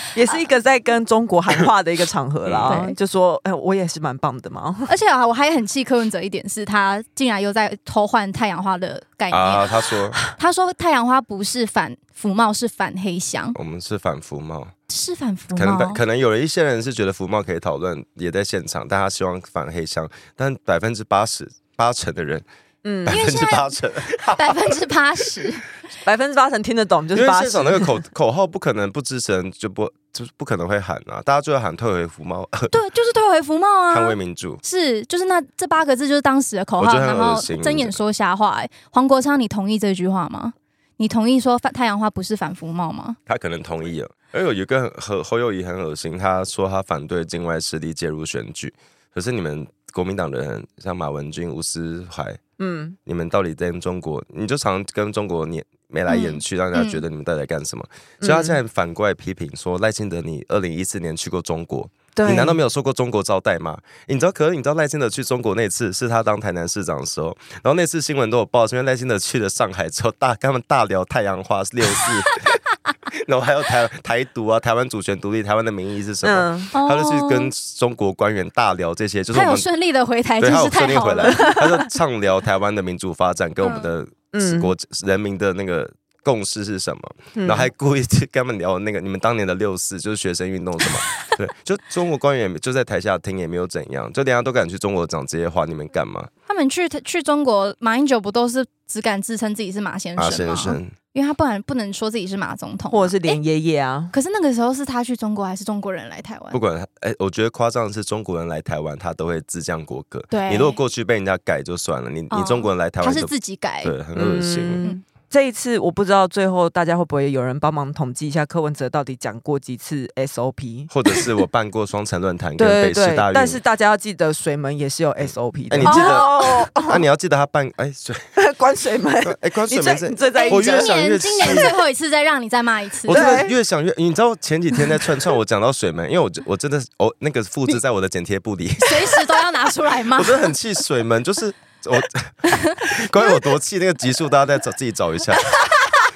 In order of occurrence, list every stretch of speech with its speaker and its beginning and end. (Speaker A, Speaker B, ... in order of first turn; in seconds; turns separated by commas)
Speaker A: 0.1-4.9, Speaker B: 2.4-2.8, Speaker C: 2.7-3.0, Speaker C: 4.9-9.7, Speaker B: 9.3-10.2, Speaker C: 10.2-13.6, Speaker B: 13.5-14.7, Speaker C: 14.9-16.0, Speaker B: 15.6-22.4, Speaker A: 22.8-23.2, Speaker B: 23.0-24.8, Speaker C: 23.1-25.6, Speaker A: 26.0-28.0, Speaker B: 27.1-32.8, Speaker C: 32.7-43.2, Speaker B: 33.9-34.6, Speaker B: 36.8-38.0, Speaker B: 43.3-52.4, Speaker A: 52.6-53.0, Speaker B: 53.0-72.4, Speaker C: 56.1-57.0, Speaker A: 58.2-58.6, Speaker A: 62.1-62.6, Speaker B: 73.1-79.7, Speaker A: 76.2-76.7, Speaker C: 76.7-77.5, Speaker C: 79.3-81.6, Speaker B: 80.4-96.3, Speaker C: 83.6-83.9, Speaker A: 84.3-84.7, Speaker A: 87.3-87.7, Speaker C: 96.5-103.4, Speaker B: 100.2-100.9, Speaker A: 102.9-104.1, Speaker C: 104.1-106.6, Speaker B: 106.5-113.3, Speaker C: 110.3-110.8, Speaker C: 112.3-113.9, Speaker B: 113.8-114.8, Speaker A: 114.2-120.9, Speaker B: 120.9-123.6, Speaker A: 122.6-127.0, Speaker B: 125.7-128.3, Speaker C: 125.8-126.7, Speaker A: 128.3-131.7, Speaker B: 129.2-131.7, Speaker C: 130.3-133.4, Speaker B: 133.1-139.3, Speaker A: 133.1-133.5, Speaker C: 138.8-140.5, Speaker B: 140.1-145.5, Speaker C: 142.5-142.9